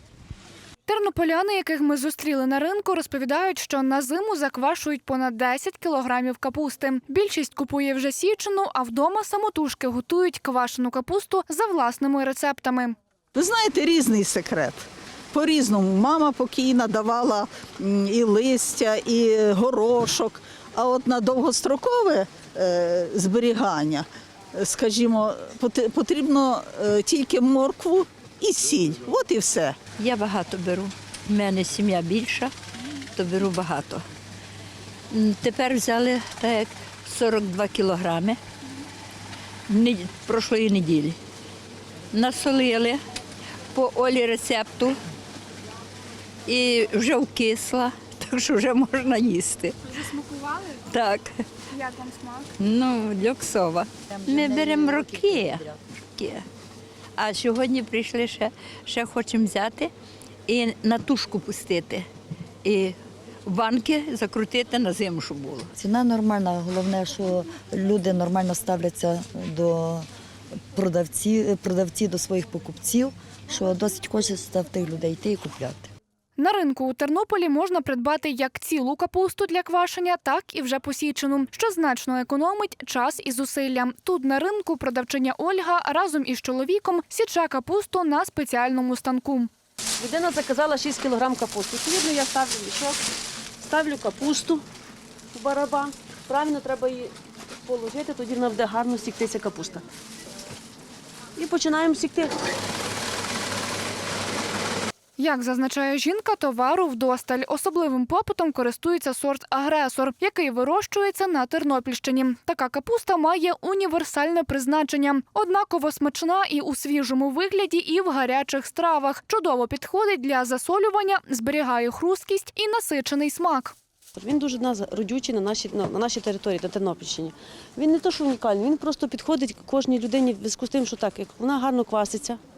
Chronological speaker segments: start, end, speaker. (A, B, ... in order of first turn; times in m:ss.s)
0:00.9-0:13.0 A
0:13.3-0:29.8 B
0:30.0-0:32.5 C
0:33.2-0:34.0 C
0:35.1-0:38.4 C
0:39.7-0:41.2 C
0:42.1-0:43.0 C
0:43.7-0:45.0 C
0:46.5-0:49.8 C
0:49.9-0:50.8 A
0:50.9-0:51.3 C
0:51.7-0:52.5 A
0:52.6-0:56.4 C
0:54.1-0:55.8 D
0:57.2-0:59.9 C
1:00.5-1:02.1 C
1:02.6-1:05.7 C
1:05.8-1:10.1 D
1:10.7-1:15.9 D
1:16.4-1:29.5 A
1:30.0-1:33.0 E
1:33.6-1:34.6 E
1:35.3-1:37.1 E
1:37.7-1:39.8 E
1:41.4-1:42.3 E
1:45.2-2:03.8 A
2:04.2-2:12.4 E